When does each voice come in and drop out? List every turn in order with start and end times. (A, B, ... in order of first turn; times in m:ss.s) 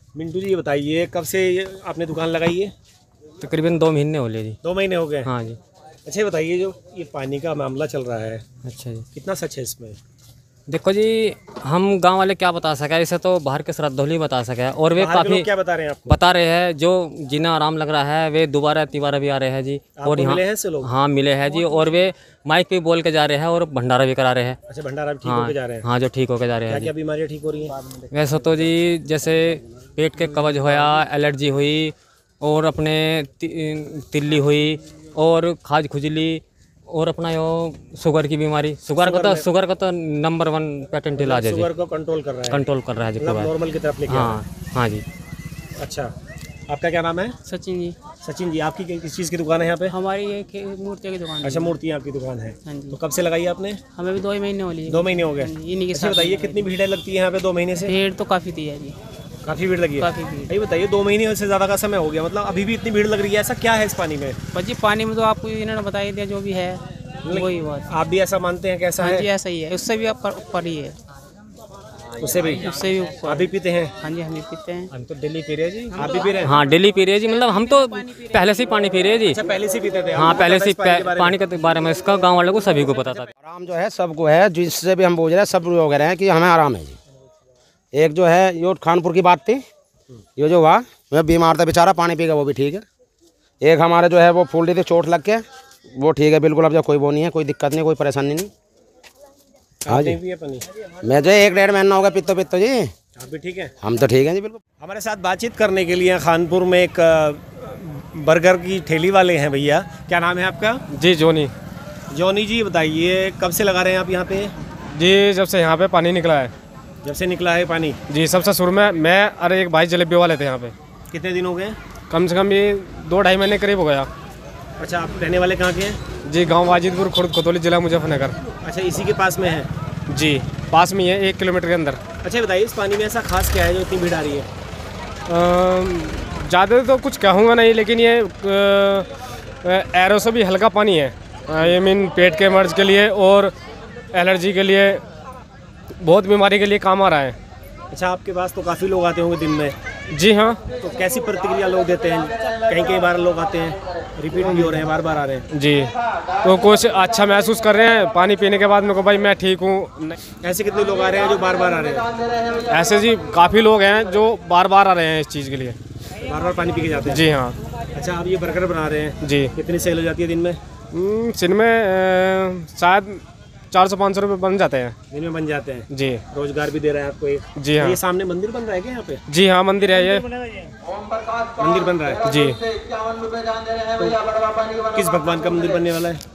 0:00.2-0:02.7 A
0:03.4-0:04.6 B
0:04.6-0:05.3 A
0:05.2-0:05.6 B
0:06.1-0:08.4 A
0:08.6-0:09.0 B
0:09.1-0:10.0 A
0:10.7-0:15.5 B
0:15.0-0:16.2 A
0:16.1-0:24.6 B
0:20.0-0:20.9 A
0:24.7-0:25.9 A
0:25.2-0:26.9 B
0:26.7-0:27.7 A
0:28.1-0:41.7 B
0:39.0-0:39.5 A
0:41.2-0:42.7 A
0:42.5-0:43.5 B
0:43.2-0:44.4 A
0:44.1-0:45.0 B
0:45.8-0:46.1 A
0:46.7-0:47.4 A
0:47.5-0:48.0 C
0:48.2-0:50.0 A
0:49.9-0:51.8 C
0:51.4-0:53.8 A
0:52.6-0:53.0 C
0:53.9-0:56.7 C
0:54.9-0:58.0 A
0:57.8-0:59.0 C
0:59.4-1:04.4 A
1:00.0-1:00.6 C
1:04.5-1:07.9 C
1:07.2-1:09.3 A
1:09.0-1:11.0 C
1:12.2-1:12.7 A
1:12.6-1:14.9 C
1:13.3-1:13.9 A
1:14.9-1:19.4 B
1:15.9-1:16.6 C
1:16.0-1:16.6 A
1:17.3-1:18.3 C
1:19.3-1:21.4 A
1:20.1-1:23.3 B
1:23.4-1:27.0 D
1:27.9-1:29.6 D
1:30.4-1:32.8 D
1:33.6-1:35.4 D
1:36.0-1:38.5 D
1:39.8-1:40.6 A
1:39.9-1:40.2 D
1:41.0-1:42.9 D
1:43.2-1:43.7 A
1:43.8-1:44.6 D
1:44.8-1:50.8 A
1:50.9-1:51.5 E
1:52.1-1:54.5 A
1:54.9-1:56.5 E
1:57.0-1:58.0 A
1:58.1-2:00.8 E
2:01.1-2:01.8 A
2:02.1-2:04.1 E
2:04.8-2:06.0 A
2:06.2-2:08.4 E
2:08.6-2:09.7 A
2:10.1-2:12.0 E
2:12.2-2:14.5 A
2:15.3-2:19.1 E
2:19.6-2:23.5 E
2:24.1-2:25.0 E
2:26.0-2:27.4 E
2:27.9-2:29.8 A
2:30.1-2:30.6 E
2:30.8-2:35.5 A
2:34.4-2:34.8 E
2:35.5-2:40.2 E
2:40.4-2:42.1 A
2:42.7-2:45.8 E
2:46.2-2:47.2 A
2:47.1-2:47.6 E
2:47.9-2:50.6 A
2:49.2-2:49.5 E
2:50.9-2:55.0 E
2:55.1-2:59.2 A
2:55.9-2:56.2 E
2:57.6-2:58.0 E
2:59.3-3:00.3 E
3:01.6-3:02.2 A
3:02.2-3:02.6 E
3:04.0-3:04.2 A
3:04.9-3:06.2 A